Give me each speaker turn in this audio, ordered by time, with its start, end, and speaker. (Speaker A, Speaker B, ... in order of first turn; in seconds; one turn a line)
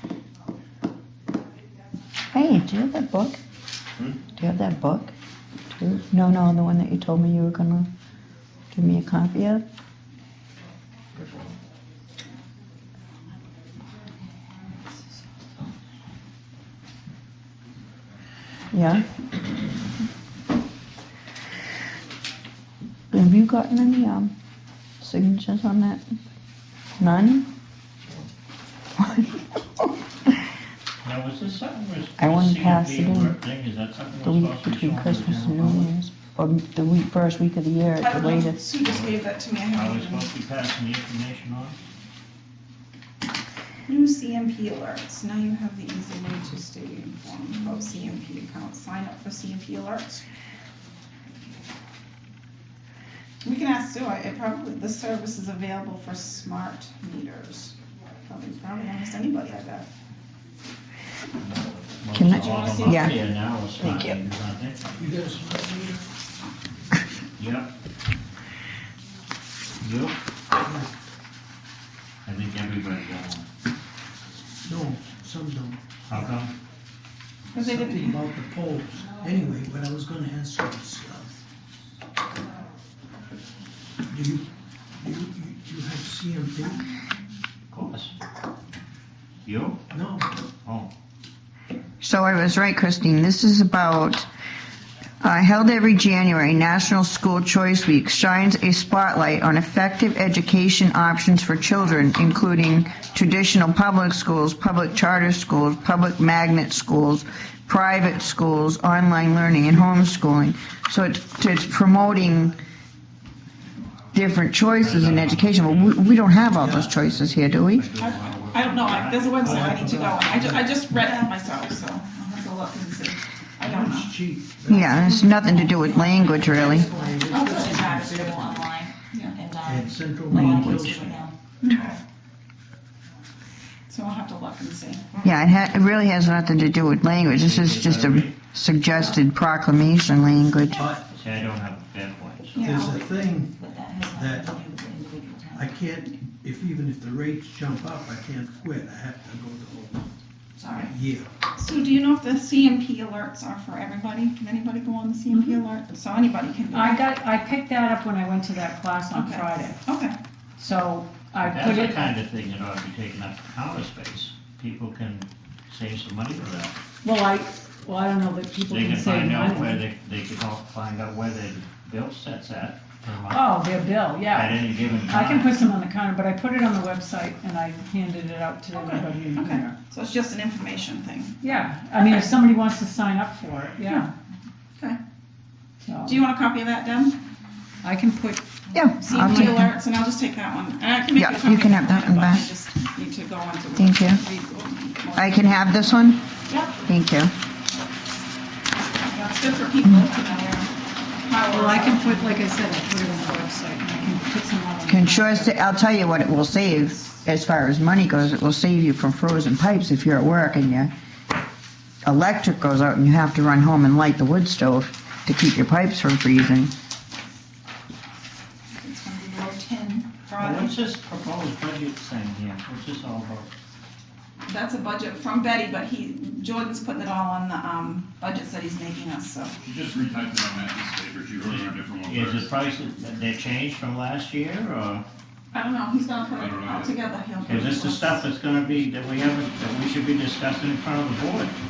Speaker A: 2.3-3.4
Speaker A: 4.3-5.1
Speaker A: 5.7-7.9
Speaker A: 8.7-9.6
Speaker A: 18.7-19.1
Speaker A: 23.1-24.3
Speaker A: 25.0-26.0
Speaker A: 27.0-27.5
Speaker A: 29.0-29.4
Speaker B: 31.0-35.9
Speaker A: 32.2-33.4
Speaker A: 34.2-38.6
Speaker C: 38.0-40.3
Speaker B: 38.8-41.8
Speaker C: 43.9-50.2
Speaker C: 53.4-57.8
Speaker C: 58.3-59.9
Speaker B: 61.4-64.8
Speaker A: 62.1-63.2
Speaker C: 62.4-63.1
Speaker A: 63.8-64.2
Speaker D: 65.0-66.0
Speaker B: 67.4-67.7
Speaker B: 69.8-70.2
Speaker D: 70.5-70.9
Speaker B: 72.2-73.5
Speaker D: 74.7-76.3
Speaker B: 76.1-76.5
Speaker C: 77.5-78.2
Speaker D: 77.6-81.4
Speaker D: 84.1-84.5
Speaker D: 85.0-86.9
Speaker B: 87.7-88.1
Speaker B: 89.5-89.8
Speaker D: 89.9-90.3
Speaker B: 90.6-90.9
Speaker A: 92.0-94.3
Speaker A: 95.2-112.6
Speaker A: 114.1-117.9
Speaker B: 114.8-120.5
Speaker D: 116.5-117.0
Speaker C: 118.0-124.1
Speaker D: 119.4-121.0
Speaker E: 121.0-121.4
Speaker D: 123.6-125.3
Speaker A: 124.7-126.9
Speaker E: 124.9-131.4
Speaker D: 126.2-128.8
Speaker C: 127.3-127.7
Speaker C: 129.1-129.4
Speaker D: 129.6-132.0
Speaker C: 131.6-131.9
Speaker C: 133.9-135.3
Speaker A: 135.2-140.9
Speaker B: 137.3-138.4
Speaker D: 140.7-141.1
Speaker B: 141.1-142.7
Speaker C: 142.6-143.1
Speaker D: 142.6-143.6
Speaker E: 143.5-145.8
Speaker D: 144.1-144.6
Speaker D: 145.5-150.1
Speaker E: 150.6-150.9
Speaker D: 150.8-151.3
Speaker C: 151.6-157.1
Speaker F: 155.3-155.6
Speaker F: 156.7-159.8
Speaker C: 159.1-160.2
Speaker F: 160.6-162.1
Speaker B: 161.4-166.8
Speaker F: 167.0-169.8
Speaker B: 168.7-173.6
Speaker F: 173.3-179.7
Speaker B: 174.3-175.6
Speaker C: 178.7-182.2
Speaker F: 181.4-184.1
Speaker F: 185.8-186.2
Speaker C: 186.1-187.2
Speaker F: 187.8-188.5
Speaker A: 188.7-189.7
Speaker C: 189.0-195.7
Speaker F: 189.1-189.6
Speaker A: 191.2-192.5
Speaker A: 193.8-194.2
Speaker A: 195.2-196.2
Speaker C: 196.5-196.8
Speaker A: 196.9-197.3
Speaker C: 199.1-200.7
Speaker C: 201.2-202.1
Speaker F: 201.5-205.6
Speaker A: 204.9-210.9
Speaker A: 212.0-216.7
Speaker C: 218.8-220.8
Speaker B: 220.4-223.5
Speaker C: 224.5-229.5
Speaker G: 229.6-232.5
Speaker B: 231.3-235.1
Speaker C: 235.5-238.2
Speaker G: 236.4-237.0
Speaker B: 237.4-241.6